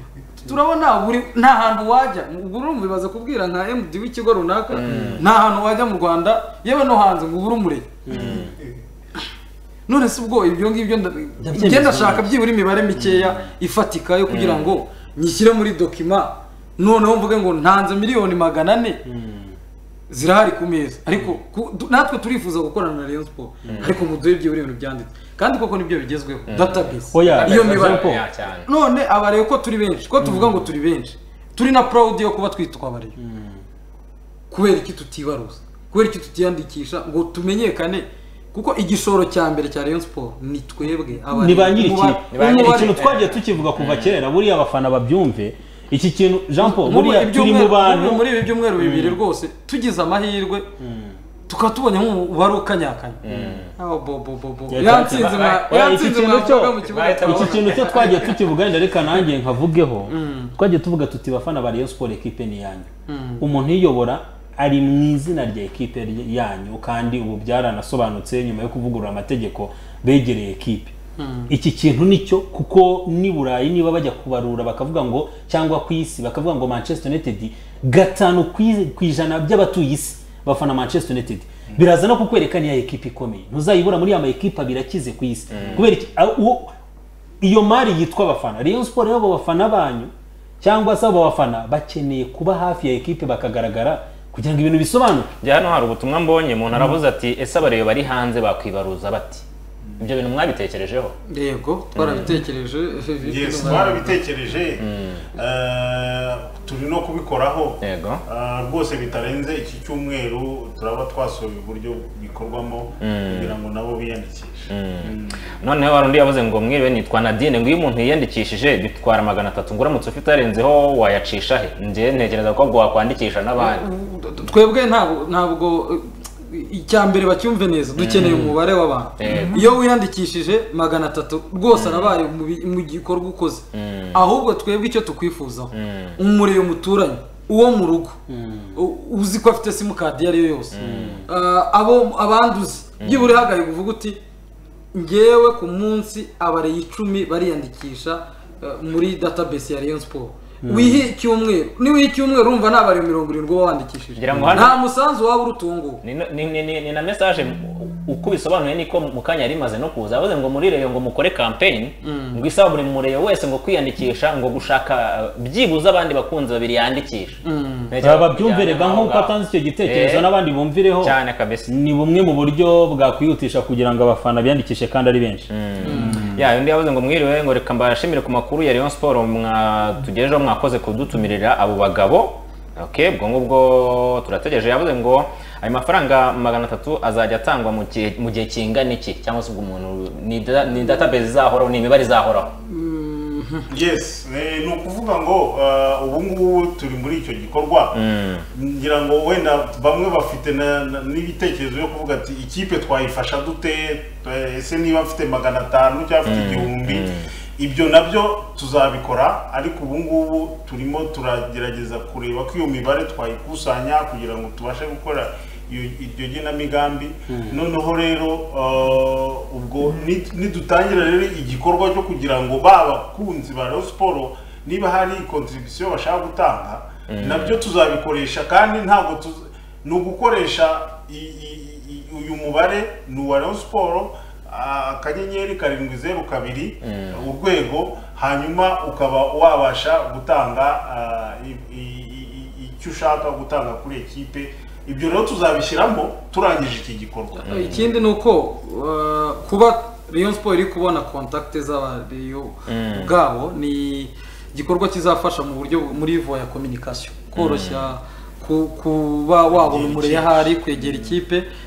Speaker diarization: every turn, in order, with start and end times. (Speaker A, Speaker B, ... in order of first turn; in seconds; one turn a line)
Speaker A: 0.4-7.9
Speaker B: 4.7-5.2
Speaker C: 4.9-5.2
Speaker C: 8.1-8.6
Speaker D: 8.2-8.5
Speaker A: 9.9-19.0
Speaker C: 11.4-12.2
Speaker C: 12.9-13.4
Speaker B: 14.3-14.8
Speaker C: 19.0-19.6
Speaker A: 20.1-33.2
Speaker C: 23.6-23.9
Speaker B: 23.7-23.9
Speaker B: 26.5-28.7
Speaker C: 27.1-28.2
Speaker B: 30.2-30.5
Speaker C: 33.2-33.6
Speaker A: 34.5-43.0
Speaker C: 41.3-49.2
Speaker B: 42.3-44.1
Speaker A: 46.6-50.7
Speaker C: 50.8-51.2
Speaker A: 51.5-53.2
Speaker B: 53.2-53.7
Speaker C: 53.3-53.6
Speaker A: 53.8-58.3
Speaker C: 54.7-70.9
Speaker B: 54.8-55.7
Speaker B: 56.9-58.3
Speaker A: 60.1-60.5
Speaker A: 63.1-63.4
Speaker A: 71.2-71.5
Speaker C: 71.5-86.7
Speaker B: 85.5-85.9
Speaker C: 87.4-95.3
Speaker B: 95.4-99.4
Speaker B: 100.0-101.1
Speaker A: 101.3-104.2
Speaker B: 101.9-102.3
Speaker D: 103.2-115.4
Speaker B: 104.8-105.2
Speaker B: 107.8-108.2
Speaker B: 113.0-113.5
Speaker B: 114.7-123.8
Speaker A: 123.6-138.2
Speaker B: 128.0-128.5
Speaker C: 128.2-128.5
Speaker B: 129.2-129.7
Speaker B: 131.7-132.1
Speaker B: 133.7-134.2
Speaker B: 135.7-136.2
Speaker C: 138.3-138.8
Speaker A: 138.7-144.2
Speaker B: 140.7-141.2
Speaker C: 140.8-141.3
Speaker B: 143.0-143.4
Speaker A: 144.9-156.0
Speaker C: 150.6-151.1
Speaker B: 154.2-154.8
Speaker C: 154.3-154.7
Speaker B: 156.0-170.2
Speaker A: 162.0-162.4
Speaker A: 167.4-167.9
Speaker C: 168.0-176.5
Speaker B: 171.0-171.7
Speaker B: 175.5-192.5
Speaker A: 175.8-176.2
Speaker A: 192.6-193.7
Speaker D: 193.7-198.0
Speaker B: 197.9-198.5
Speaker D: 198.5-247.9
Speaker B: 206.2-207.3
Speaker C: 217.3-217.6
Speaker B: 227.1-227.6
Speaker B: 236.8-237.2
Speaker B: 247.4-247.9
Speaker A: 247.5-261.5
Speaker B: 252.7-253.1
Speaker B: 257.4-257.9
Speaker D: 259.5-261.1